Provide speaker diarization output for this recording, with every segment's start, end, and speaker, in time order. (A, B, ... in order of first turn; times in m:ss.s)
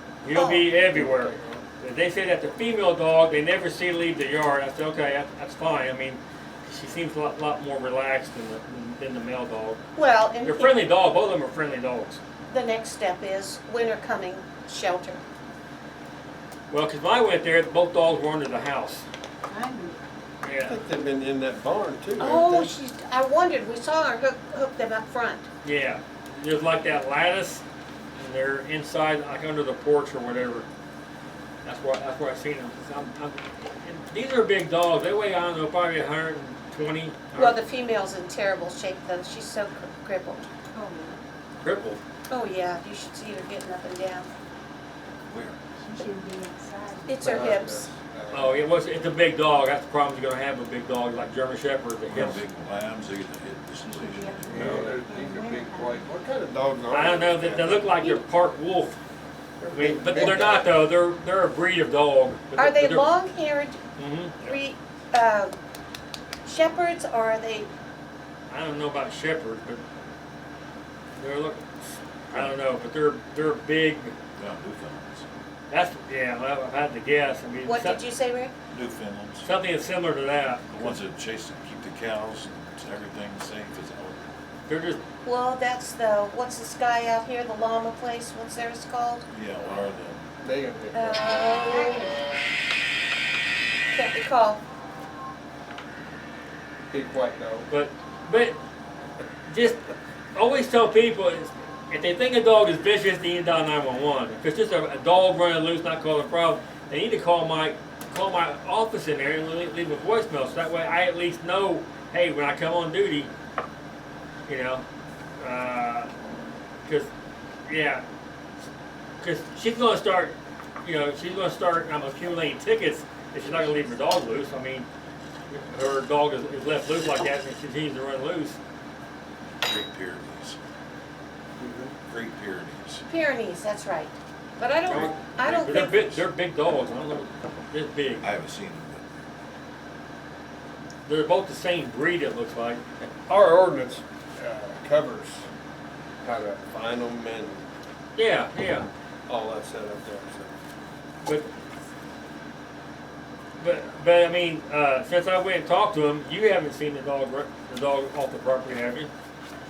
0:00.2-0:09.8 A
0:00.3-0:00.7 B
0:00.9-0:01.6 C
0:10.0-0:10.9 B
0:10.4-0:12.2 A
0:12.5-0:15.2 B
0:16.7-0:19.1 A
0:19.5-0:20.0 D
0:20.4-0:20.8 A
0:20.6-0:22.8 C
0:22.2-0:25.5 B
0:25.6-0:27.6 A
0:28.2-0:30.7 A
0:31.6-0:37.6 A
0:37.3-0:40.5 B
0:40.7-0:41.2 D
0:41.6-0:42.0 A
0:42.3-0:44.3 B
0:45.3-0:46.0 E
0:45.9-0:47.6 D
0:47.1-0:47.9 B
0:47.1-0:48.6 C
0:48.3-0:52.4 A
0:52.1-0:55.0 E
0:53.9-0:56.1 D
0:54.5-0:58.1 C
0:56.9-0:59.0 A
0:59.6-1:00.8 C
0:59.7-1:03.1 A
1:02.6-1:03.8 B
1:04.0-1:04.6 A
1:04.4-1:05.6 B
1:06.5-1:07.7 B
1:08.5-1:09.8 A
1:11.2-1:11.7 A
1:12.3-1:14.1 A
1:14.4-1:15.3 E
1:15.7-1:18.0 A
1:17.6-1:18.5 B
1:18.7-1:19.5 E
1:19.4-1:20.9 A
1:20.7-1:24.3 E
1:24.7-1:25.0 A
1:25.2-1:29.2 B
1:29.3-1:30.2 E
1:30.4-1:31.5 C
1:30.9-1:32.2 B
1:33.9-1:34.6 B
1:36.9-1:37.7 C
1:37.7-1:38.6 A
1:39.5-1:53.3 A
1:54.5-1:54.8 A
1:55.4-1:56.1 A
1:56.8-1:57.1 A
1:57.7-1:58.0 A
1:59.2-2:04.9 A
2:05.5-2:08.6 A
2:09.6-2:10.6 E
2:11.6-2:11.9 C
2:12.1-2:13.0 E
2:13.0-2:16.2 B
2:14.9-2:18.3 A
2:14.9-2:16.0 E
2:18.2-2:19.1 E
2:21.1-2:22.8 A
2:23.3-2:25.4 C
2:26.2-2:27.7 C
2:28.2-2:28.9 A
2:29.3-2:30.5 C
2:33.6-2:39.1 A